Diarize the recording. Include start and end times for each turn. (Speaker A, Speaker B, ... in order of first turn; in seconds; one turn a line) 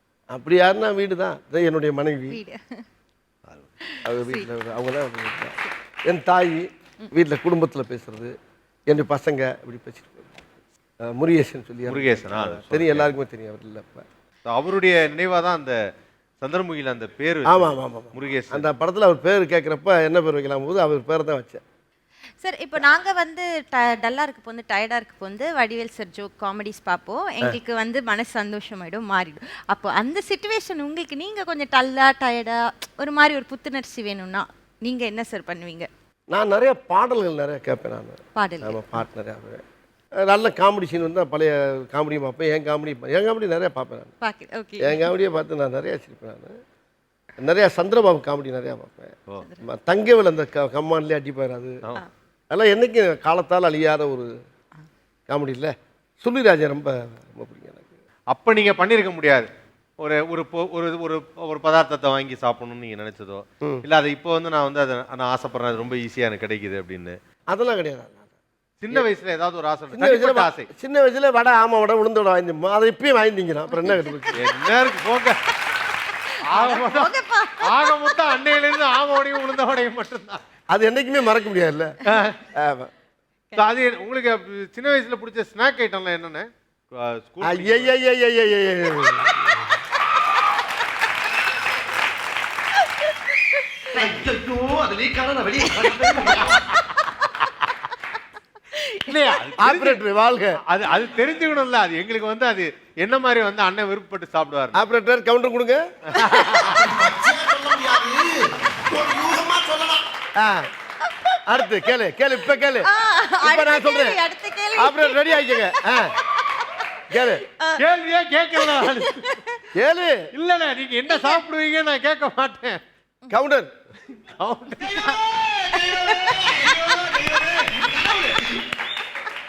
Speaker A: 0.3-2.4
Speaker B: 2.3-2.8
Speaker B: 3.9-4.5
Speaker A: 4.0-8.3
Speaker A: 8.9-10.4
Speaker A: 11.0-14.1
Speaker C: 11.9-13.1
Speaker C: 14.5-15.8
Speaker C: 16.4-18.7
Speaker A: 17.5-21.6
Speaker B: 22.4-35.9
Speaker A: 36.3-39.6
Speaker B: 38.4-39.0
Speaker A: 40.2-44.1
Speaker B: 44.2-45.1
Speaker A: 44.8-46.5
Speaker A: 47.4-51.8
Speaker A: 52.5-54.3
Speaker A: 55.3-57.9
Speaker C: 58.3-59.5
Speaker C: 60.0-67.2
Speaker A: 67.5-68.3
Speaker C: 68.8-70.7
Speaker A: 69.9-74.4
Speaker B: 73.7-74.5
Speaker C: 74.4-75.4
Speaker B: 75.8-78.2
Speaker C: 76.5-80.4
Speaker A: 80.7-82.0
Speaker C: 82.1-82.4
Speaker A: 82.5-82.9
Speaker C: 83.6-87.9
Speaker A: 87.4-89.8
Speaker B: 93.0-94.1
Speaker A: 93.9-96.8
Speaker B: 95.7-96.6
Speaker B: 98.7-99.3
Speaker C: 99.1-100.0
Speaker A: 99.6-100.6
Speaker C: 100.7-104.8
Speaker A: 104.8-110.7
Speaker C: 106.1-106.8
Speaker B: 111.1-111.4
Speaker A: 111.5-112.9
Speaker B: 112.8-117.0
Speaker A: 113.4-114.2
Speaker A: 114.8-116.2
Speaker A: 117.1-117.4
Speaker C: 117.8-119.2
Speaker B: 118.6-119.7
Speaker A: 119.8-120.3
Speaker C: 120.3-122.8
Speaker B: 121.1-121.4
Speaker A: 123.3-123.7
Speaker C: 124.1-125.3
Speaker B: 124.9-128.4
Speaker C: 126.5-127.4